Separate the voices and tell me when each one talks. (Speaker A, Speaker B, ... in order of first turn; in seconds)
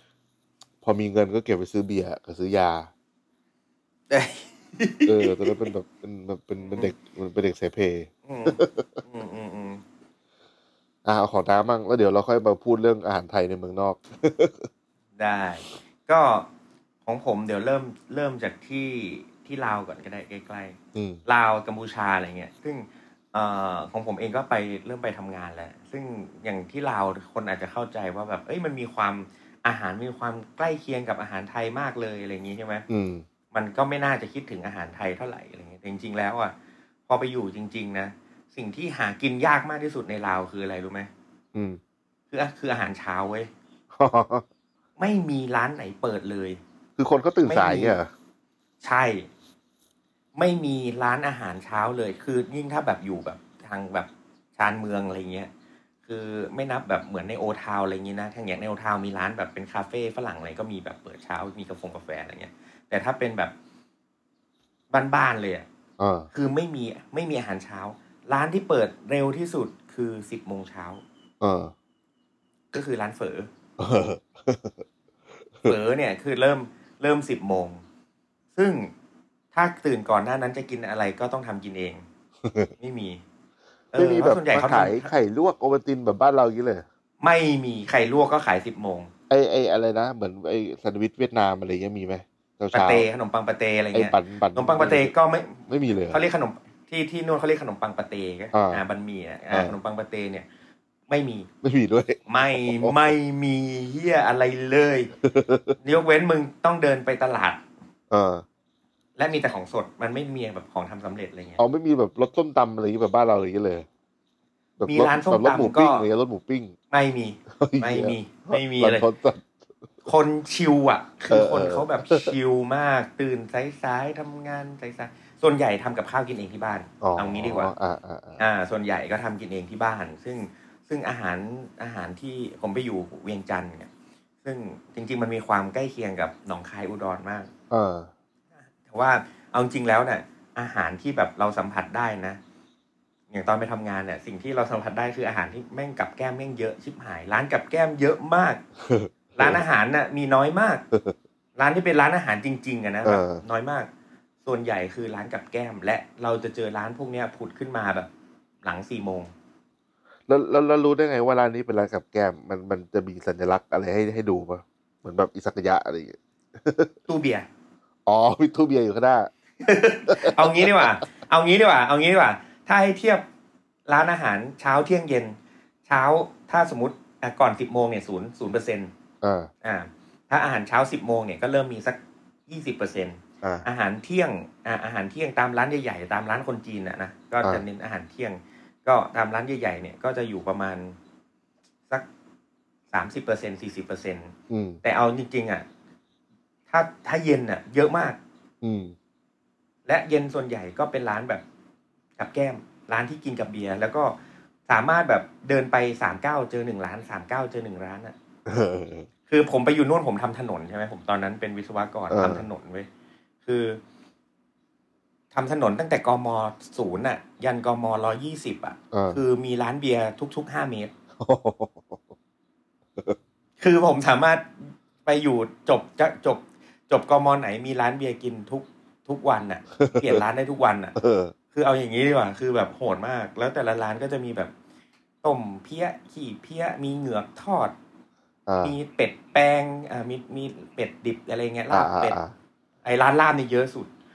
Speaker A: 0.8-2.9, 5.0-9.0, 11.0-14.7, 20.9-21.2, 32.9-33.2, 41.5-41.8, 43.9-44.5, 47.0-48.1, 66.0-66.3, 71.4-71.7, 73.8-74.8, 82.4-82.7, 83.9-86.8, 89.3-93.1, 93.9-95.1, 95.7-96.2, 98.5-98.8, 99.5-99.8, 101.6-103.0, 105.2-105.8, 108.1-108.4, 111.6-113.9, 114.8-116.8, 117.5-119.5, 121.3-122.3, 127.0-128.4, 137.7-138.1, 148.8-149.6, 153.0-153.4, 160.3-166.9, 168.1-169.3, 170.1-170.9, 179.2-179.5, 194.5-194.8, 198.6-198.9, 208.4-209.1, 212.1-212.4, 218.9-219.2, 221.2-222.0, 229.8-230.2, 230.9-231.3, 238.4-238.7, 241.7-242.3
Speaker B: 4.1-5.7, 6.6-6.9, 8.2-9.8, 15.2-16.5, 17.0-32.9, 33.5-36.5, 37.1-41.1, 42.3-43.5, 45.0-46.6, 47.4-48.0, 48.8-49.3, 50.3-55.5, 56.0-63.5, 64.9-65.7, 66.3-71.0, 72.7-73.5, 75.6-77.8, 78.5-78.9, 79.5-82.0, 82.8-83.2, 83.9-85.1, 87.2-89.1, 92.7-100.5, 101.1-101.5, 102.3-105.1, 105.8-107.6, 109.2-111.6, 114.8-116.0, 116.9-119.0, 120.0-127.7, 128.4-133.9, 134.4-137.5, 138.8-142.4, 143.3-148.6, 149.3-150.8, 151.6-153.9, 154.4-158.1, 158.6-159.3, 167.1-167.5, 169.6-173.2, 173.9-178.9, 179.6-191.0, 192.9-195.6, 196.7-198.2, 199.8-201.4, 202.2-204.1, 204.7-208.1, 209.3-212.9, 213.4-213.8, 215.3-220.9, 223.6-230.9, 231.5-234.5, 235.2-237.7, 238.6-242.2, 242.8-243.9